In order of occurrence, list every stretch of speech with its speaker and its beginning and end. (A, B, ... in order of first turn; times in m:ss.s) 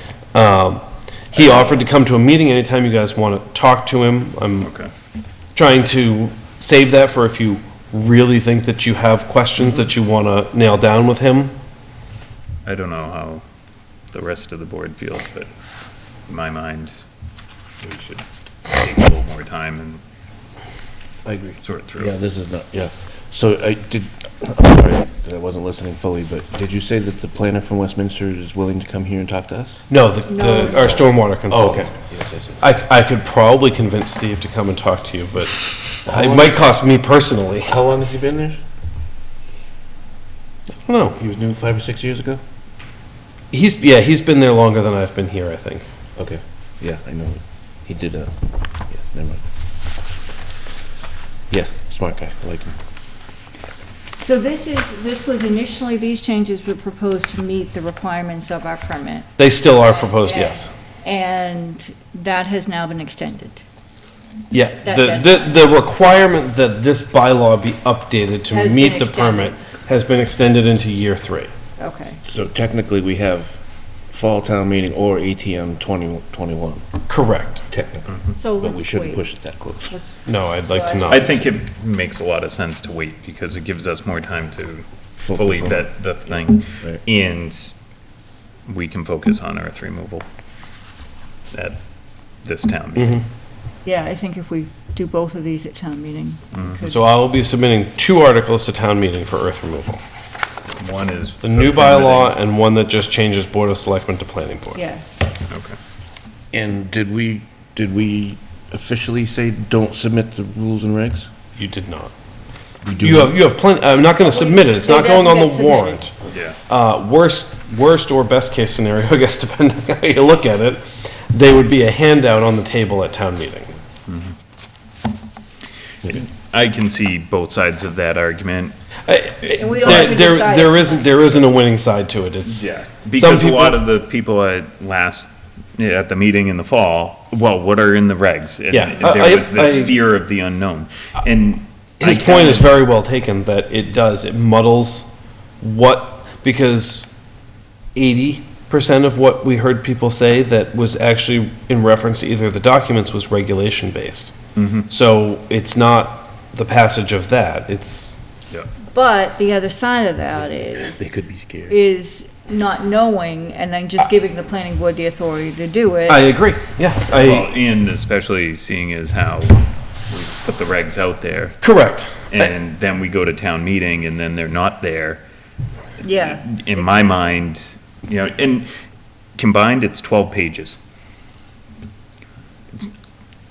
0:00.3-0:04.7 A
0:01.3-0:01.8 B
0:04.6-0:04.9 B
0:05.5-0:11.6 A
0:12.6-0:13.4 B
0:14.1-0:15.5 B
0:16.3-0:17.0 B
0:17.8-0:20.0 B
0:21.3-0:29.8 C
0:21.6-0:22.1 B
0:29.9-0:31.9 A
0:30.3-0:31.1 D
0:31.5-0:32.6 C
0:32.6-0:37.8 A
0:36.0-0:36.8 C
0:37.6-0:38.6 C
0:40.8-0:41.2 A
0:41.2-0:42.4 C
0:43.5-0:45.8 A
0:46.2-0:48.3 C
0:48.9-0:49.4 C
0:51.5-0:52.8 C
0:54.2-1:03.6 D
0:59.4-1:00.7 A
1:04.5-1:11.5 A
1:04.8-1:05.7 D
1:08.5-1:09.5 D
1:11.8-1:12.2 D
1:12.2-1:13.6 C
1:14.1-1:16.8 C
1:17.1-1:17.7 A
1:17.7-1:19.9 C
1:18.4-1:19.2 D
1:19.9-1:21.3 D
1:20.2-1:21.3 A
1:21.0-1:27.7 B
1:25.2-1:25.8 C
1:28.7-1:30.2 B
1:31.5-1:31.8 B
1:32.4-1:33.2 B
1:33.0-1:33.2 A
1:33.8-1:37.0 D
1:36.5-1:36.8 B
1:36.8-1:40.0 A
1:40.8-1:42.3 B
1:41.4-1:44.8 A
1:44.7-1:45.2 D
1:45.5-1:45.8 B
1:46.5-1:51.3 C
1:51.6-1:52.1 A
1:52.8-1:53.4 C
1:53.0-1:56.1 A
1:54.2-1:56.0 D
1:56.3-1:56.6 B
1:56.7-2:03.7 A
2:04.1-2:04.3 B
2:06.0-2:08.7 B
2:09.1-2:13.8 A
2:09.6-2:11.4 D
2:09.8-2:10.1 B
2:12.4-2:22.8 B
2:18.7-2:20.0 A
2:22.0-2:25.1 A
2:25.6-2:27.1 A
2:27.9-2:34.3 A
2:34.6-2:34.9 B
2:34.9-2:38.2 A
2:38.9-2:41.1 D
2:40.8-2:41.8 C
2:41.7-2:46.2 D
2:46.1-2:47.5 A
2:47.1-2:51.6 B
2:51.6-2:52.5 A
2:52.3-2:55.2 B
2:56.0-2:58.7 B
2:56.0-2:56.4 D
2:59.4-3:00.8 B